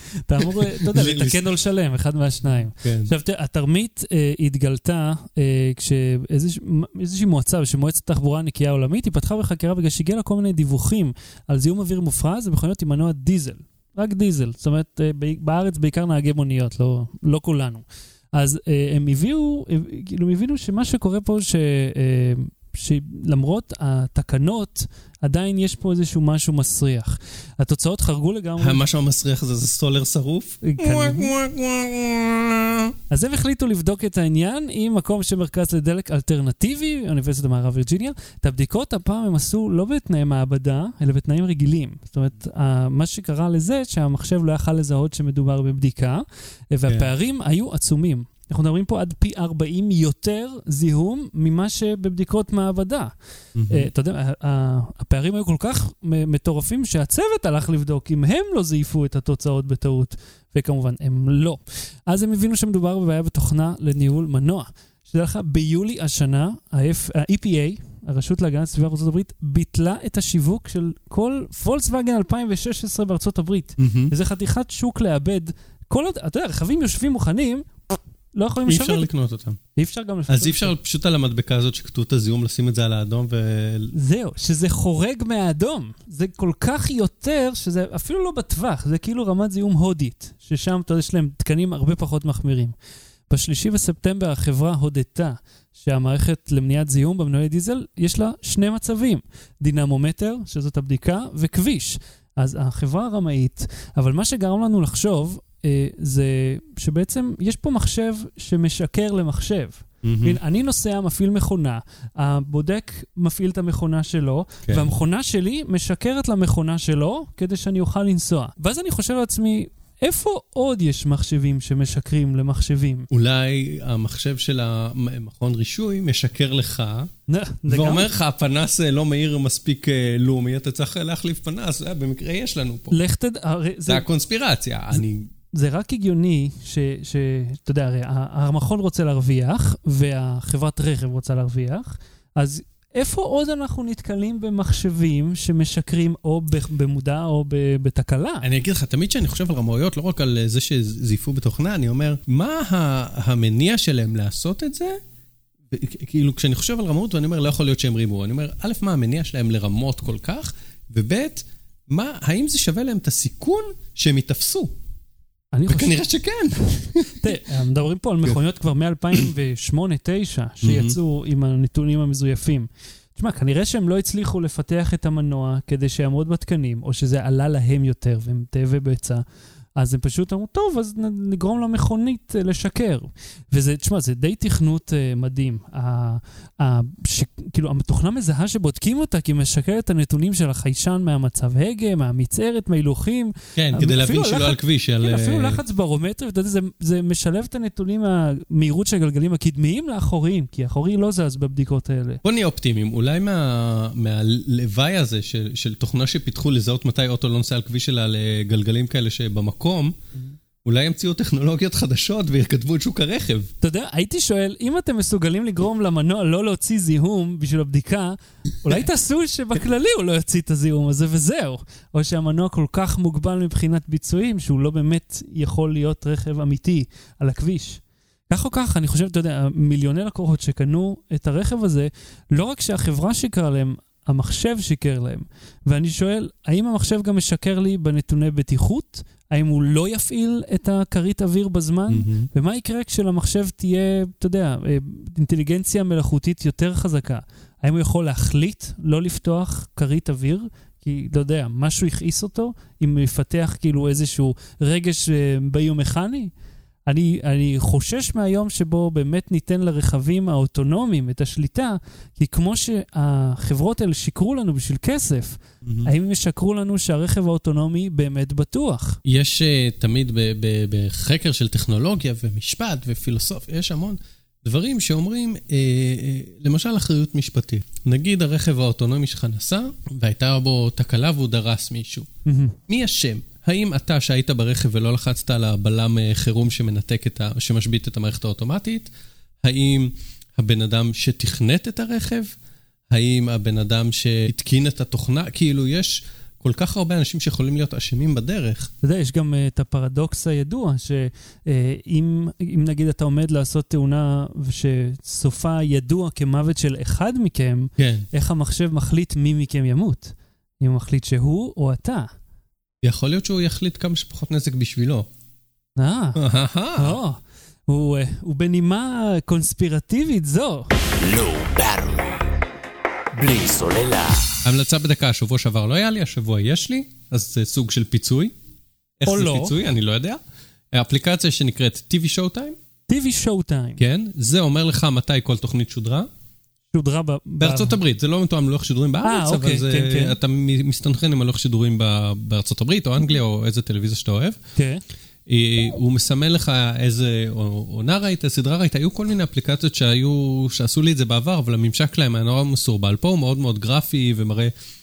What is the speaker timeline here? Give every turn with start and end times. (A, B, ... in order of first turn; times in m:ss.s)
0:00.2-0:28.8 A
0:00.4-0:01.4 B
0:02.8-0:03.1 B
0:28.6-0:32.9 B
0:30.6-0:31.3 A
0:33.1-0:53.1 A
0:46.9-0:47.1 B
0:53.5-0:53.9 B
0:53.7-1:19.1 A
1:13.8-1:14.1 B
1:18.7-1:19.6 B
1:19.7-1:20.7 A
1:20.3-1:23.9 B
1:23.9-1:32.7 A
1:33.3-2:03.1 A
1:50.0-1:50.4 B
2:03.1-2:07.1 B
2:07.3-2:08.1 A
2:07.7-2:13.0 B
2:12.9-2:14.0 A
2:13.9-2:15.3 B
2:15.5-2:28.5 A
2:28.4-2:35.0 B
2:35.7-2:44.7 B
2:45.5-2:46.0 A
2:45.7-2:47.3 B
2:47.1-2:59.2 A
2:50.6-2:51.0 B
2:59.8-3:22.2 A
3:13.6-3:15.6 B
3:22.2-3:29.9 B
3:30.6-3:33.5 B
3:33.6-4:16.3 A
4:01.9-4:02.3 B
4:16.9-4:29.0 A
4:25.6-4:25.9 B
4:29.0-4:42.1 B
4:42.2-4:42.6 A
4:42.7-4:48.9 B
4:49.4-4:52.3 B
4:52.9-4:58.7 B
4:58.8-5:12.1 A
5:07.8-5:08.0 B
5:12.8-5:15.1 B
5:15.8-5:16.2 A
5:16.2-5:17.0 B
5:16.8-5:20.7 A
5:20.8-5:22.3 C
5:23.1-5:24.4 C
5:24.4-5:28.3 B
5:29.0-5:30.2 B
5:29.0-5:29.6 A
5:30.7-5:32.6 B
5:32.9-5:33.8 A
5:33.8-5:36.1 B
5:36.7-5:37.8 A
5:37.4-5:44.4 B
5:39.0-5:40.2 A
5:44.6-5:44.8 A
5:45.2-5:54.5 B